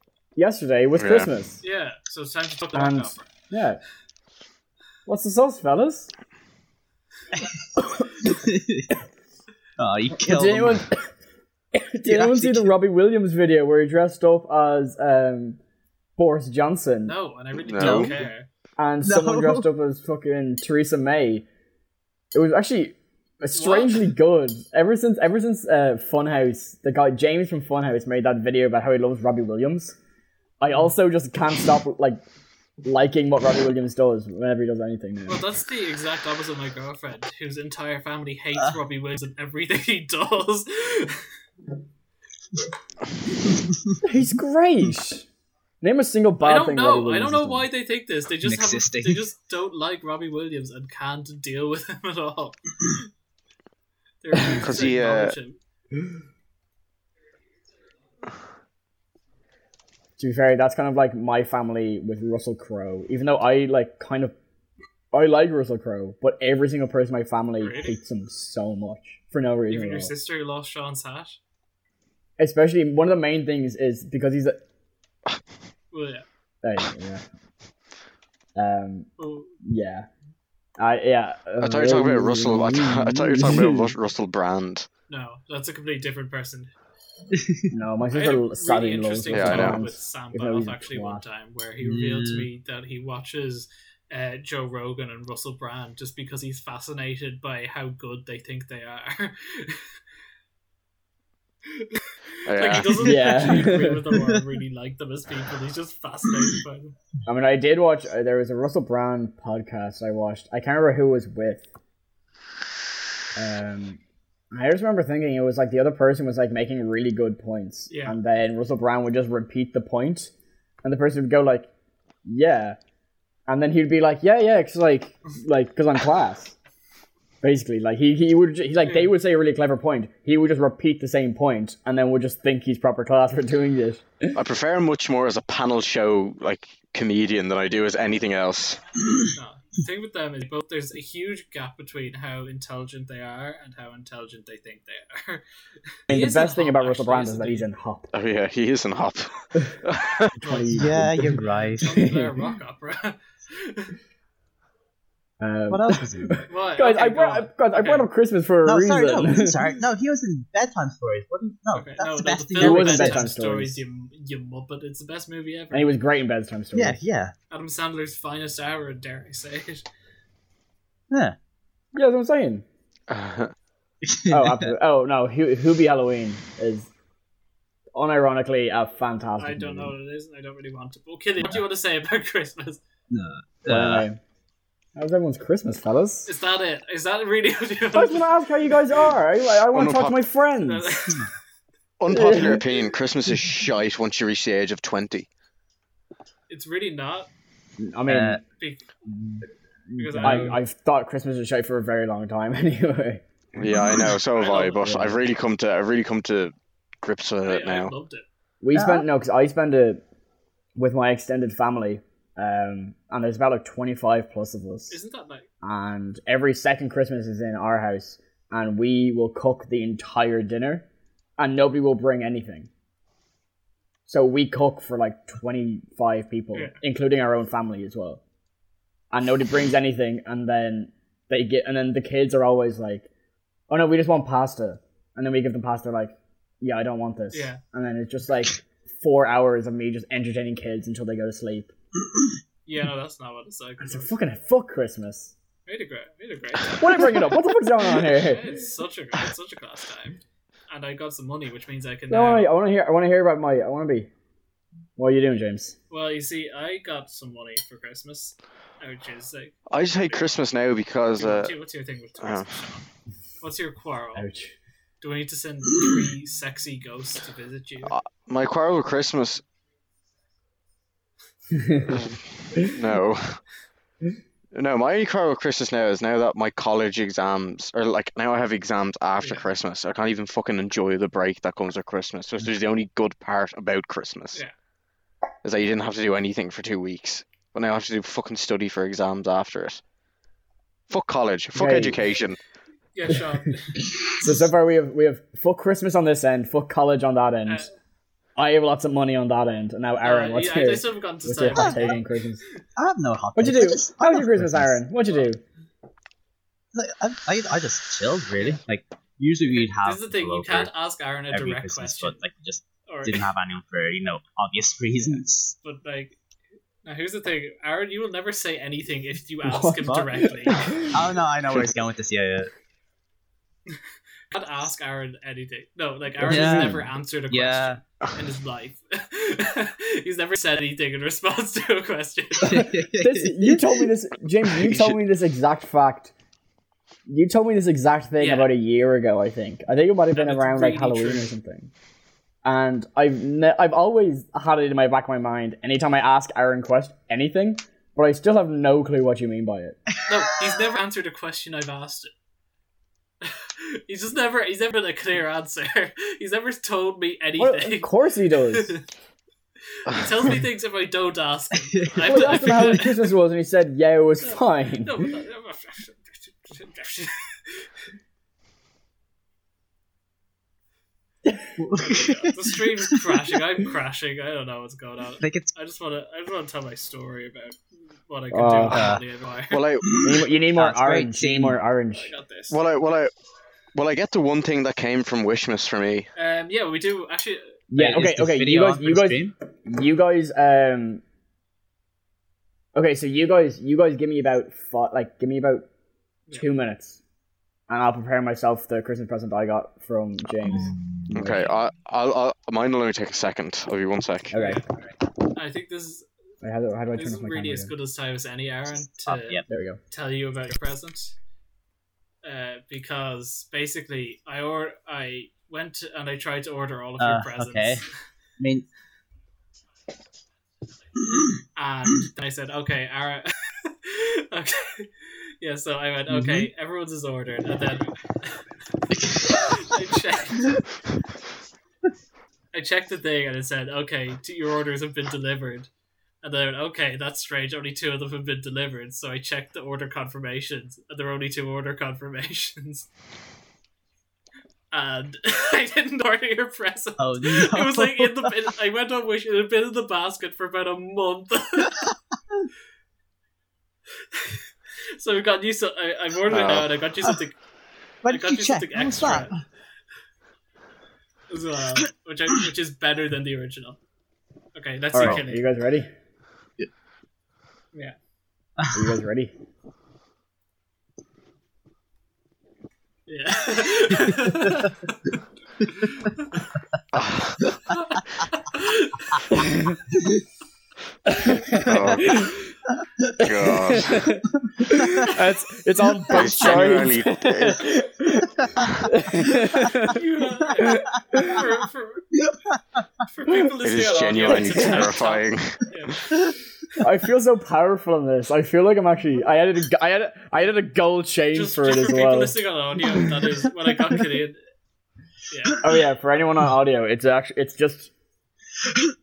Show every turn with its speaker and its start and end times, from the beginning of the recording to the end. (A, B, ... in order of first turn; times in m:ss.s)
0:00.4-0:01.6 A
0:01.0-0:01.3 B
0:01.6-0:03.3 C
0:02.7-0:03.8 A
0:05.0-0:06.1 A
0:07.8-0:08.1 A
0:08.2-0:08.9 D
0:09.8-0:10.8 D
0:10.2-0:11.1 A
0:11.7-0:15.6 A
0:12.0-0:12.7 D
0:16.2-0:17.1 A
0:17.1-0:18.5 C
0:17.7-0:18.1 B
0:17.8-0:21.4 A
0:19.0-0:19.7 D
0:22.3-0:30.0 A
0:23.5-0:24.1 C
0:30.6-0:32.2 A
0:32.8-0:35.4 A
0:35.3-0:41.2 C
0:43.5-0:43.7 D
0:44.0-0:45.3 A
0:45.8-0:47.7 A
0:46.4-0:52.9 C
0:48.4-0:49.2 D
0:54.2-0:55.6 C
0:54.6-0:55.4 B
1:00.2-1:04.3 A
1:05.1-1:10.1 A
1:07.6-1:08.0 C
1:09.7-1:11.4 C
1:12.4-1:14.6 A
1:15.9-1:16.2 C
1:16.6-1:17.2 A
1:18.6-1:19.1 A
1:19.2-1:19.5 C
1:19.6-1:20.1 A
1:20.8-1:23.9 A
1:21.6-1:24.9 B
1:25.1-1:26.7 C
1:27.3-1:27.6 D
1:27.7-1:31.2 A
1:28.1-1:39.9 C
1:29.3-1:29.8 B
1:31.8-1:32.5 D
1:41.7-1:46.9 C
1:42.4-1:43.3 B
1:43.0-1:44.1 A
1:47.2-1:51.6 A
1:53.3-1:54.0 A
1:54.5-2:00.3 A
1:57.9-1:58.2 C
2:00.8-2:01.7 A
2:02.2-2:02.8 A
2:03.5-2:06.6 A
2:07.4-2:14.4 A
2:08.8-2:09.1 C
2:14.3-2:18.8 B
2:19.3-2:25.4 C
2:26.1-2:27.7 C
2:26.1-2:28.1 A
2:28.1-2:30.3 B
2:30.3-2:32.4 A
2:30.4-2:33.9 C
2:30.7-2:31.9 D
2:35.4-2:39.6 A
2:35.7-2:36.4 D
2:36.5-2:38.1 C
2:38.6-2:43.3 D
2:41.7-2:45.9 C
2:42.6-2:43.8 A
2:45.7-2:47.0 A
2:46.7-2:47.3 D
2:47.5-2:49.8 C
2:51.1-2:51.4 D
2:51.9-2:52.6 A
2:53.1-2:53.5 B
2:54.0-2:54.7 D
2:54.3-2:56.9 A
2:57.9-2:59.9 A
2:59.4-3:02.8 C
3:03.1-3:04.0 D
3:03.6-3:04.2 A
3:05.0-3:06.3 A
3:06.2-3:08.3 C
3:07.9-3:11.0 A
3:09.7-3:10.2 B
3:10.6-3:11.3 C
3:12.0-3:15.3 B
3:12.1-3:12.6 A
3:16.5-3:17.3 C
3:17.8-3:18.4 A
3:18.0-3:18.4 D
3:18.6-3:18.9 C
3:19.9-3:23.2 A
3:20.0-3:20.6 C
3:20.2-3:20.5 D
3:23.6-3:27.9 B
3:24.3-3:24.8 C
3:24.7-3:25.2 A
3:27.4-3:28.2 C
3:28.6-3:30.0 A
3:28.7-3:29.0 D
3:30.8-3:35.0 A
3:34.9-3:35.4 C
3:35.6-3:40.8 A
3:41.4-3:42.7 A
3:44.1-3:48.2 A
3:46.5-3:46.8 C
3:49.1-3:53.1 A
3:53.7-4:01.7 A
3:57.3-3:57.6 C
4:02.6-4:04.1 C
4:03.8-4:05.3 A
4:05.7-4:07.3 C
4:06.8-4:08.6 A
4:08.0-4:12.5 C
4:12.1-4:14.1 A
4:15.0-4:15.8 A
4:15.9-4:20.3 C
4:19.7-4:21.6 B
4:21.2-4:22.9 C
4:22.2-4:22.5 B
4:23.4-4:24.3 C
4:24.1-4:24.5 A
4:25.0-4:27.9 C
4:27.8-4:29.4 B
4:31.5-4:32.0 A
4:31.9-4:33.4 B
4:34.5-4:44.4 B
4:39.2-4:39.4 C
4:45.4-4:49.8 B
4:50.9-4:52.4 B
4:51.5-4:52.0 A
4:52.9-4:53.8 C
4:53.1-4:53.4 A
4:54.2-4:57.7 A
4:58.4-5:02.4 A
5:00.0-5:02.0 C
5:01.5-5:02.0 D
5:02.8-5:04.8 D
5:03.4-5:05.4 A
5:06.7-5:10.7 D
5:09.4-5:12.2 C
5:11.3-5:15.5 D
5:12.9-5:13.2 C
5:15.1-5:16.2 C
5:16.8-5:20.8 C
5:19.4-5:21.0 A
5:20.7-5:22.5 D
5:24.3-5:32.7 C
5:26.2-5:26.9 A
5:26.3-5:26.8 D
5:27.3-5:27.8 D
5:32.4-5:33.8 D
5:32.4-5:36.1 A
5:34.6-5:35.0 B
5:37.1-5:41.7 A
5:38.2-5:38.5 C
5:40.1-5:41.3 C
5:42.4-5:49.8 A
5:50.0-5:52.1 C
5:53.2-5:57.9 C
5:57.4-5:58.7 A
5:58.5-5:58.8 C
5:59.7-6:02.9 C
6:01.7-6:02.8 D
6:02.0-6:05.1 A
6:04.2-6:07.7 C
6:11.6-6:12.4 D
6:11.8-6:19.6 C
6:15.2-6:15.5 D
6:18.3-6:18.9 A
6:18.7-6:19.0 D
6:19.5-6:19.9 B
6:19.8-6:21.6 D
6:20.0-6:22.1 A
6:22.0-6:22.6 C
6:22.5-6:23.1 B
6:23.7-6:26.1 B
6:26.2-6:27.6 C
6:27.7-6:31.0 A
6:27.7-6:29.3 D
6:32.7-6:35.7 A
6:36.3-6:37.0 A
6:37.7-6:41.5 A
6:40.5-6:41.1 D
6:41.1-6:44.3 B
6:44.3-6:44.6 A
6:44.4-6:44.6 C
6:45.3-6:46.1 C
6:46.4-6:47.7 A
6:46.9-6:51.1 C
6:49.0-6:49.4 D
6:49.5-6:49.8 A
6:52.2-6:57.8 C
6:57.0-6:57.8 D
6:58.4-6:58.6 D
7:01.6-7:08.4 C
7:06.1-7:06.5 D
7:08.9-7:09.4 D
7:09.2-7:10.6 C
7:12.5-7:15.7 C
7:16.2-7:22.9 C
7:24.7-7:31.8 C
7:27.0-7:28.3 D
7:34.1-7:34.4 C
7:35.0-7:37.4 C
7:36.3-7:36.7 B
7:38.0-7:39.4 D
7:38.1-7:39.3 C
7:41.3-7:43.8 C
7:44.5-7:45.4 C
7:44.9-7:45.9 A
7:48.6-7:48.9 D
7:48.7-7:49.3 A
7:53.1-7:55.2 C
7:55.8-7:56.4 C
7:56.9-7:57.6 B
7:57.7-7:59.4 C
8:01.1-8:02.4 A
8:01.6-8:02.3 B
8:03.2-8:04.1 B
8:03.2-8:10.0 A
8:04.4-8:05.1 D
8:06.1-8:07.6 B
8:06.3-8:06.8 C
8:09.8-8:12.1 C
8:10.8-8:11.4 A
8:12.2-8:12.6 D
8:13.1-8:16.1 C
8:13.6-8:16.0 B
8:14.3-8:14.9 A
8:16.8-8:22.4 A
8:21.3-8:24.4 C
8:25.3-8:25.6 C
8:25.6-8:27.9 A